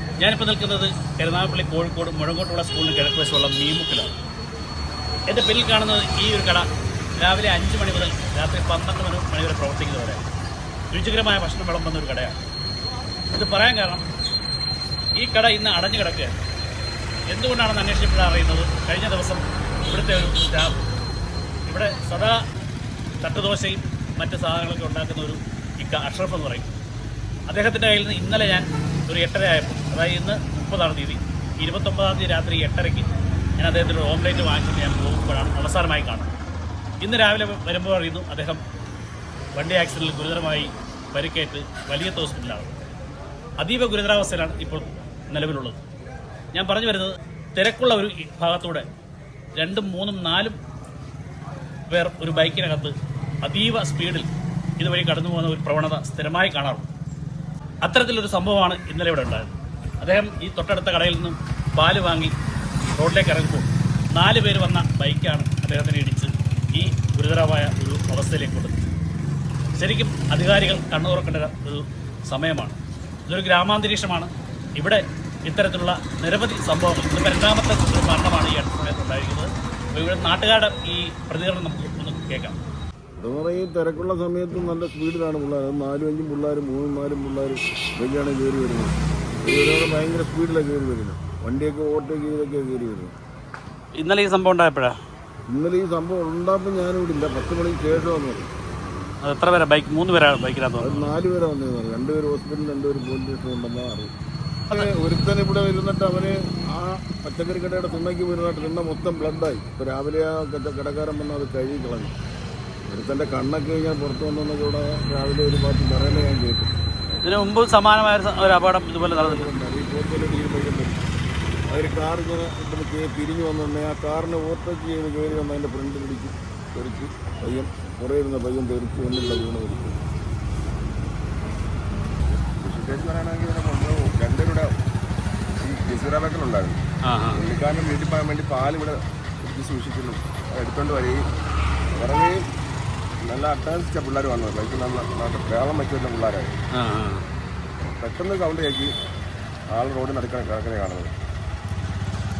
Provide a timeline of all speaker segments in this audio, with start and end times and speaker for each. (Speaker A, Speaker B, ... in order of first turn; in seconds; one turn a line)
Speaker A: 0.2-4.2
Speaker A: 5.3-6.7
Speaker A: 7.2-10.2
Speaker A: 10.9-12.4
Speaker A: 13.3-14.1
Speaker A: 15.2-16.4
Speaker A: 17.3-20.8
Speaker A: 21.7-22.4
Speaker A: 23.2-26.8
Speaker A: 27.5-33.1
Speaker A: 33.6-36.3
Speaker A: 37.0-38.6
Speaker A: 39.6-42.7
Speaker A: 43.6-45.8
Speaker A: 46.5-48.9
Speaker A: 49.6-50.6
Speaker A: 51.9-54.3
Speaker A: 54.8-56.9
Speaker A: 57.8-62.3
Speaker A: 63.0-68.8
Speaker A: 69.8-72.8
Speaker A: 73.3-82.6
Speaker B: 83.2-93.2
Speaker A: 94.0-95.0
Speaker B: 95.5-98.5
Speaker A: 99.2-101.1
Speaker B: 100.8-104.1
Speaker B: 104.7-112.1
Speaker B: 112.9-116.7
Speaker A: 117.2-119.5
Speaker B: 119.1-121.0
Speaker B: 121.7-130.0
Speaker C: 132.6-134.7
Speaker C: 135.6-136.8
Speaker A: 137.1-137.4
Speaker C: 137.3-141.2
Speaker C: 142.0-142.4
Speaker C: 143.2-146.5
Speaker A: 146.8-147.2
Speaker C: 148.0-148.9
Speaker C: 149.7-151.1